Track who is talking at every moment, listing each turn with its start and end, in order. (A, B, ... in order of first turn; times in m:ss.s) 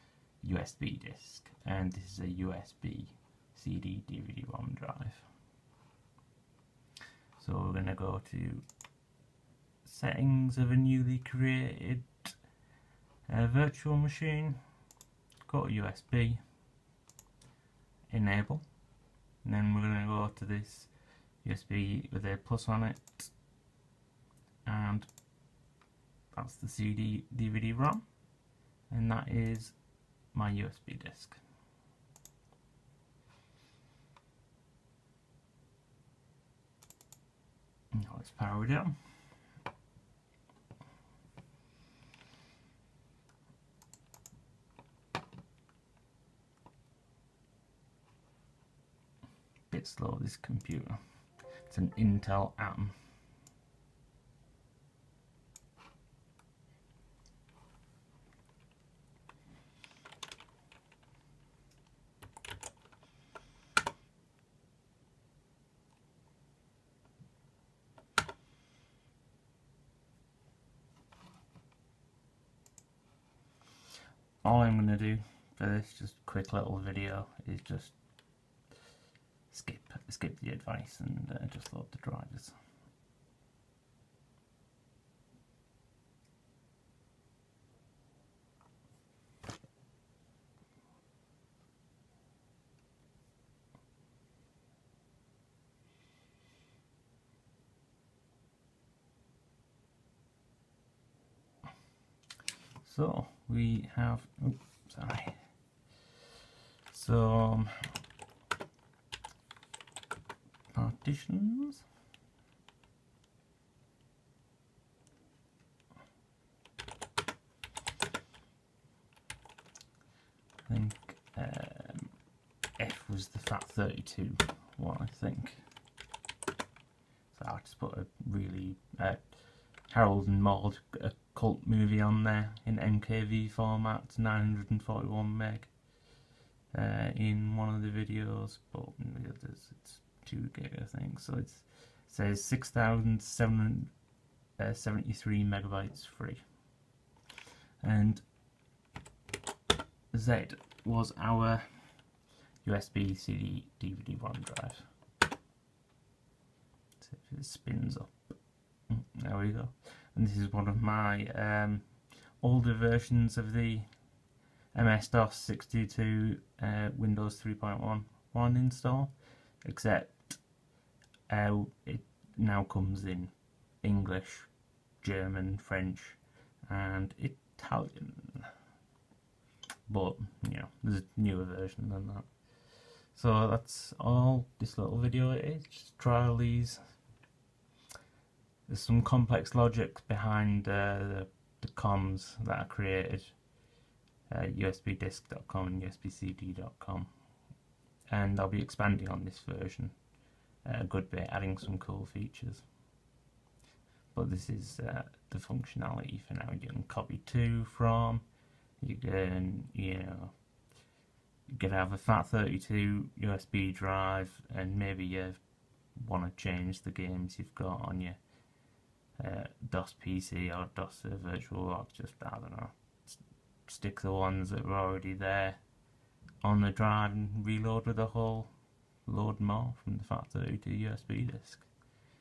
0:00.4-0:05.3 A
0:07.4-0:08.6 A
0:09.8-0:12.4 A
0:13.3-0:14.6 A
0:15.5-0:16.4 A
0:18.1-0:18.6 A
0:19.4-0:20.9 A
0:21.4-0:23.3 A
0:24.6-0:25.1 A
0:26.3-0:28.0 A
0:28.9-0:29.8 A
0:30.3-0:31.4 A
0:37.9-0:38.9 A
0:49.7-0:51.0 A
0:51.6-0:52.9 A
1:14.4-1:18.0 A
1:19.5-1:22.6 A
1:42.8-1:45.5 A
1:46.9-1:47.9 A
1:50.7-1:51.8 A
2:00.6-2:02.2 A
2:02.8-2:05.6 A
2:07.3-2:15.7 A
2:16.7-2:23.9 A
2:24.6-2:26.5 A
2:27.8-2:28.2 A
2:30.1-2:32.1 A
2:32.6-2:34.9 A
2:37.0-2:38.4 A
2:38.9-2:43.9 A
2:44.7-2:50.4 A
2:51.3-2:58.5 A
2:59.9-3:06.8 A
3:08.7-3:13.3 A
3:14.3-3:17.1 A
3:18.1-3:20.0 A
3:20.6-3:22.6 A
3:24.1-3:28.2 A
3:28.8-3:30.3 A
3:31.5-3:38.2 A
3:39.2-3:45.6 A
3:46.4-3:48.5 A
3:49.0-3:51.7 A